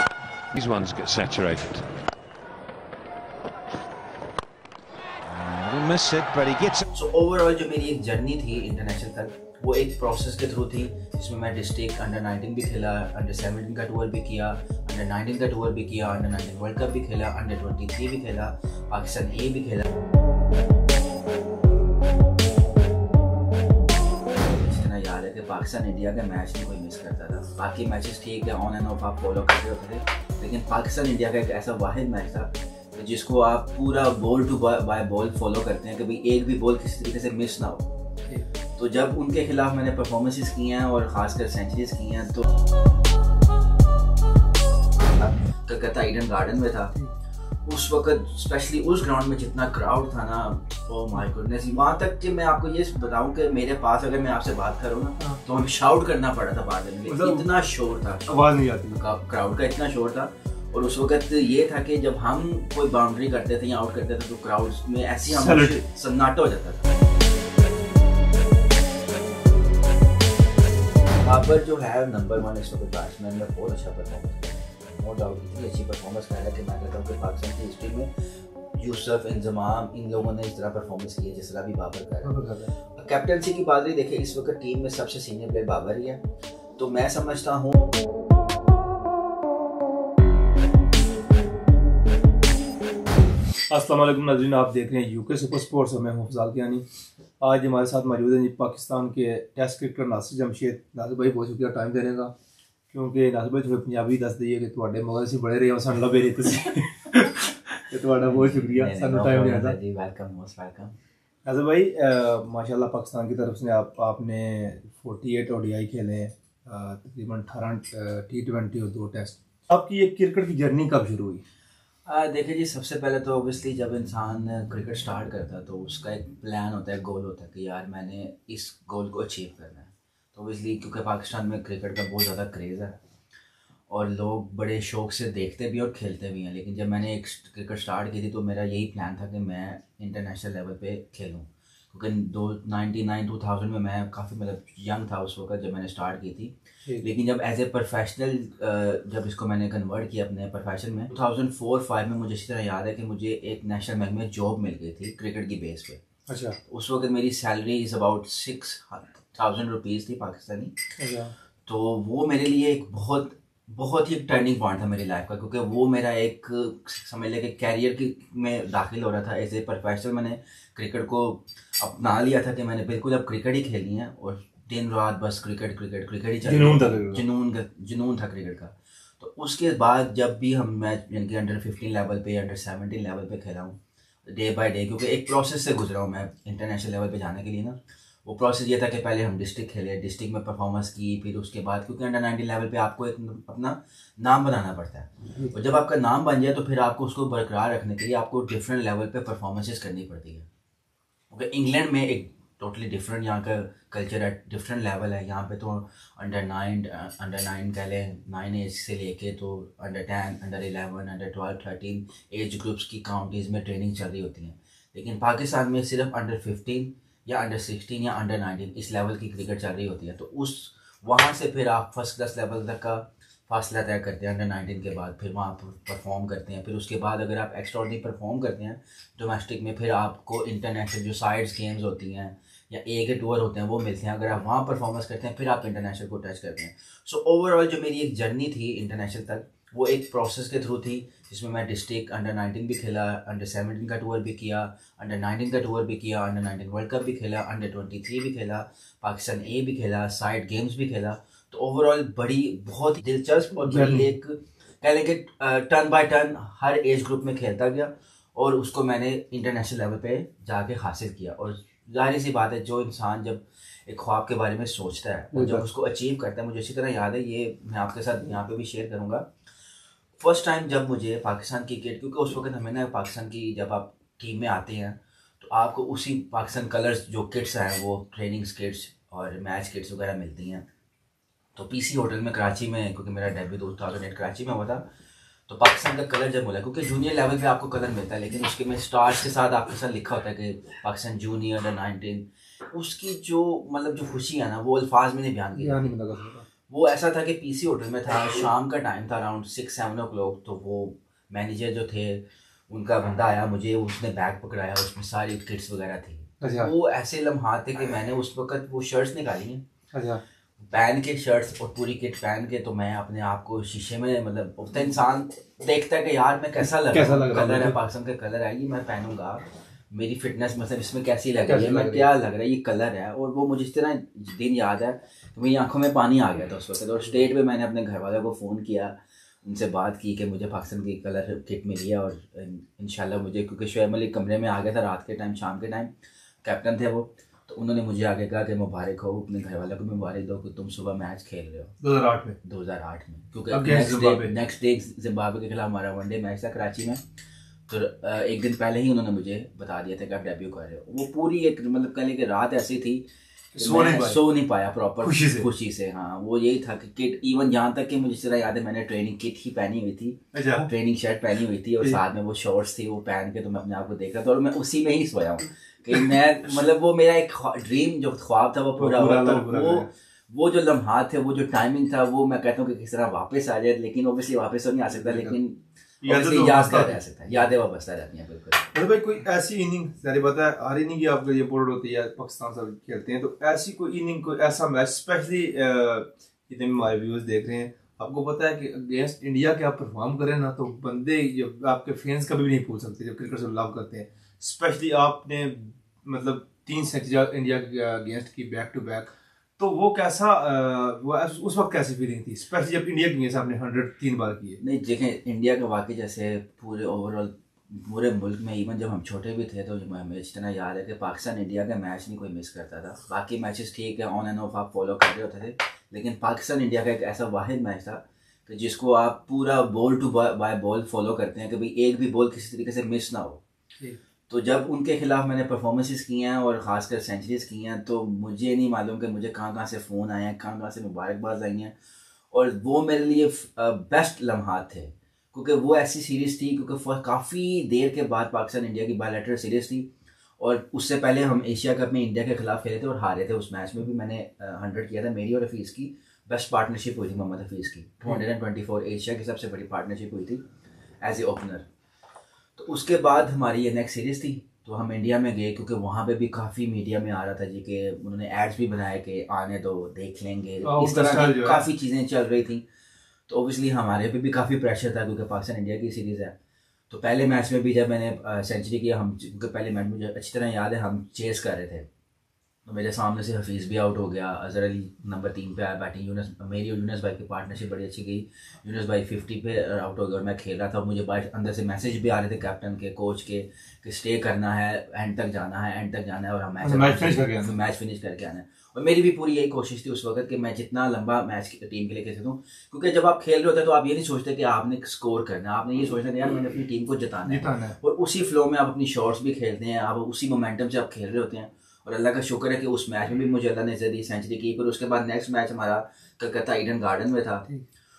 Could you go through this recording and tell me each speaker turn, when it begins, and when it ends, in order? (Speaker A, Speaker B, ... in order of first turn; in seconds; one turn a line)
Speaker A: 0.5-1.9
Speaker A: 5.2-6.8
Speaker B: 6.9-19.8
Speaker B: 24.4-37.9
Speaker B: 38.8-42.4
Speaker B: 45.0-46.9
Speaker B: 47.6-58.3
Speaker C: 57.0-57.5
Speaker C: 58.3-59.0
Speaker B: 58.9-66.9
Speaker C: 65.3-65.8
Speaker B: 71.2-78.1
Speaker B: 78.7-82.3
Speaker C: 82.2-82.7
Speaker B: 82.9-86.2
Speaker B: 86.8-87.8
Speaker C: 93.7-96.8
Speaker C: 97.4-102.3
Speaker C: 102.9-109.8
Speaker B: 108.2-110.9
Speaker C: 111.4-121.4
Speaker B: 122.0-133.0
Speaker B: 133.9-156.0
Speaker C: 156.3-156.6
Speaker B: 156.7-160.8
Speaker C: 161.0-161.3
Speaker B: 161.7-200.4
Speaker C: 176.4-177.2
Speaker B: 201.3-269.3
Speaker C: 253.6-254.1
Speaker C: 265.3-265.7
Speaker B: 270.2-280.6
Speaker B: 281.6-284.8
Speaker B: 285.5-295.9
Speaker C: 295.6-296.4
Speaker B: 296.7-309.6
Speaker C: 306.4-306.7
Speaker C: 309.9-310.2
Speaker B: 310.7-335.9
Speaker C: 316.9-317.8
Speaker C: 321.5-322.1
Speaker B: 336.4-341.7
Speaker C: 341.8-342.4
Speaker B: 342.4-347.0
Speaker C: 343.5-344.3
Speaker B: 347.7-378.7
Speaker C: 353.5-354.2
Speaker C: 355.0-355.5
Speaker C: 360.3-360.7
Speaker C: 368.8-369.9
Speaker C: 374.9-375.4
Speaker C: 376.0-377.4
Speaker C: 378.7-404.6
Speaker B: 404.6-423.4
Speaker B: 424.3-431.7
Speaker B: 432.3-450.4
Speaker B: 451.0-451.6
Speaker B: 452.6-462.6
Speaker C: 460.6-461.6
Speaker B: 463.3-466.3
Speaker B: 466.9-471.9
Speaker B: 472.6-507.4
Speaker C: 486.6-487.5
Speaker C: 497.2-497.8